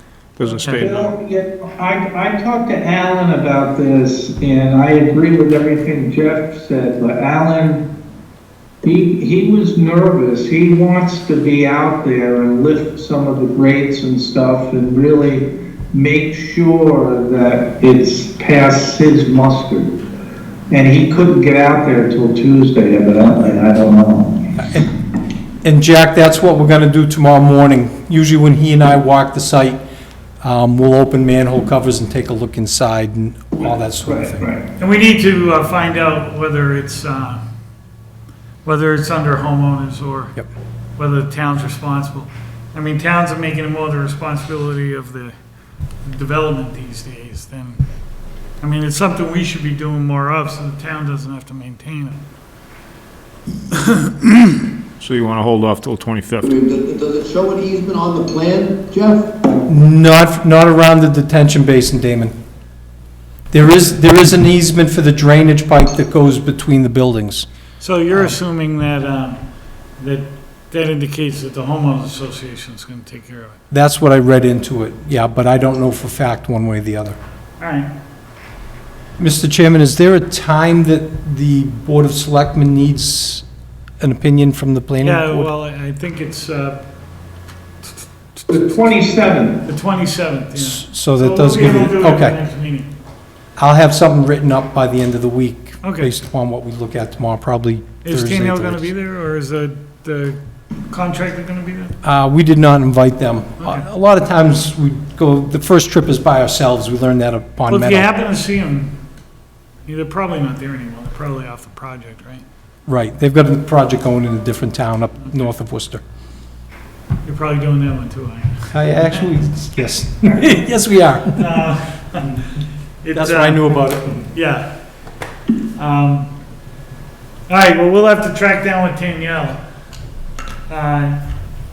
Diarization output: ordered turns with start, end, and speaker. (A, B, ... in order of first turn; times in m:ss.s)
0:00.4-0:01.1 A
0:00.6-0:01.0 B
0:00.7-0:07.8 C
0:08.8-0:19.9 C
0:20.7-0:24.4 C
0:24.6-0:24.9 D
0:25.6-0:29.8 D
0:30.4-0:34.4 D
0:34.0-0:34.6 C
0:34.8-0:37.4 B
0:38.6-0:40.3 B
0:41.0-0:45.4 B
0:46.0-0:47.8 B
0:48.6-0:52.2 B
0:53.7-0:54.6 B
0:55.0-0:56.5 A
0:56.4-0:59.3 E
0:59.7-1:02.3 D
1:03.5-1:07.5 D
1:07.8-1:09.4 B
1:10.0-1:13.6 B
1:13.7-1:17.2 D
1:17.6-1:17.9 B
1:19.2-1:23.4 D
1:24.0-1:25.5 D
1:25.0-1:26.8 B
1:28.5-1:29.6 C
1:29.6-1:32.9 B
1:30.5-1:32.4 D
1:33.6-1:38.9 D
1:35.8-1:36.1 B
1:38.0-1:41.9 B
1:42.0-1:48.1 D
1:43.6-1:43.8 B
1:47.7-1:48.9 B
1:49.8-1:52.4 B
1:52.9-1:56.0 D
1:57.2-1:59.9 B
1:58.7-2:01.4 D
2:01.3-2:02.4 B
2:03.0-2:04.7 B
2:03.1-2:04.3 D
2:05.8-2:06.3 B
2:07.5-2:09.6 B
2:10.7-2:11.2 B